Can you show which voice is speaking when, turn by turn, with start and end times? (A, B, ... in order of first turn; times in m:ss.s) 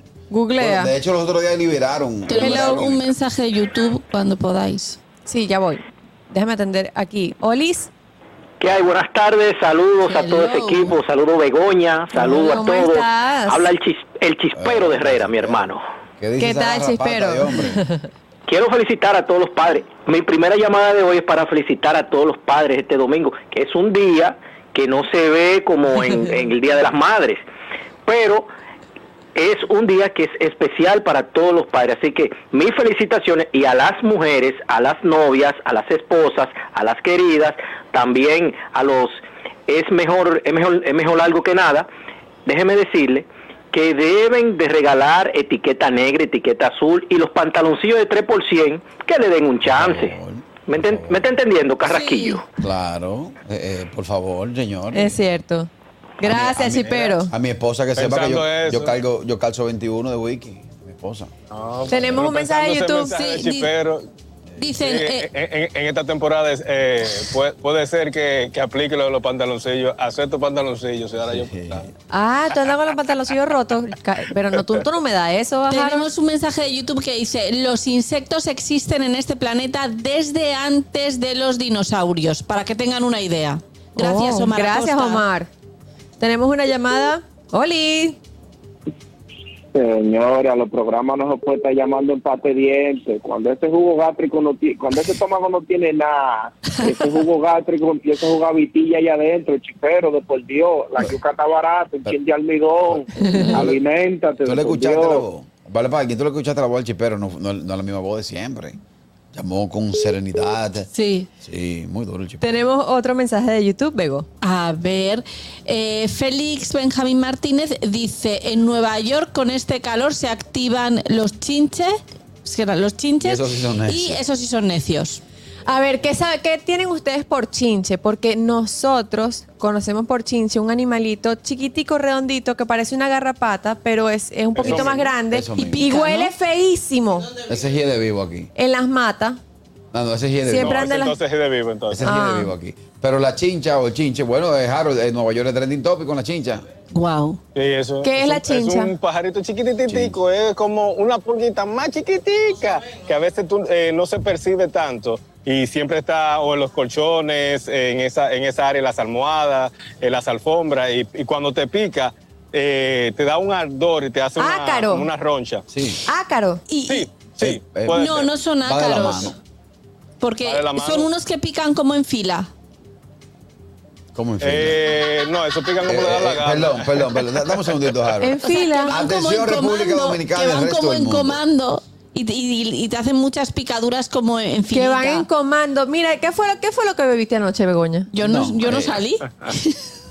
0:00.3-0:00.9 A
0:00.6-0:03.0 B
0:02.3-0:05.0 C
0:02.3-0:02.8 A
0:05.2-0:07.9 A
0:08.6-0:15.8 D
0:10.0-0:10.9 C
0:12.1-0:13.7 A
0:14.5-0:17.8 B
0:16.4-0:18.0 A
0:18.5-0:27.4 D
0:28.0-0:28.5 D
0:29.4-0:39.1 D
0:39.7-0:41.9 D
0:42.4-0:50.1 D
0:49.6-0:51.3 B
0:50.7-0:52.4 D
0:51.8-0:52.4 C
0:52.6-0:55.2 B
0:54.9-0:55.7 A
0:56.2-0:57.3 A
0:56.2-1:01.3 B
0:58.0-0:58.9 E
1:01.5-1:04.1 E
1:01.9-1:03.1 A
1:03.1-1:03.7 C
1:04.6-1:05.3 C
1:04.8-1:11.9 E
1:11.2-1:11.9 B
1:12.1-1:16.1 A
1:15.7-1:25.2 C
1:24.0-1:25.5 A
1:26.2-1:28.2 A
1:29.7-1:45.2 F
1:42.9-1:43.8 B
1:44.4-1:48.8 B
1:49.3-1:50.9 B
1:50.9-1:51.3 C
1:51.4-1:52.6 B
1:52.4-1:54.2 A
1:54.4-2:01.9 C
2:02.4-2:05.2 C
2:03.2-2:04.2 B
2:05.7-2:17.4 A
2:14.5-2:15.1 E
2:14.6-2:15.9 B
2:15.5-2:16.3 C
2:17.4-2:18.5 B
2:18.5-2:19.4 A
2:19.9-2:20.8 B
2:20.4-2:21.2 A
2:20.6-2:22.1 E
2:21.9-2:26.6 B
2:22.0-2:22.5 A
2:26.9-2:27.4 C
2:27.5-2:45.6 E
2:28.0-2:28.9 A
2:29.9-2:30.2 B
2:44.4-2:45.1 A
2:45.7-2:46.0 B
2:46.1-2:46.6 A
2:46.7-2:47.1 C
2:46.9-2:48.3 E
2:47.4-2:49.4 B
2:47.9-2:49.3 C
2:50.2-2:52.5 C
2:50.4-2:51.1 E
2:54.1-2:54.9 B
2:54.4-2:57.6 E
2:55.8-3:01.4 B
2:58.2-2:59.0 A
2:58.4-3:05.3 C
3:04.7-3:08.1 A
3:08.1-3:09.8 C
3:08.2-3:09.0 B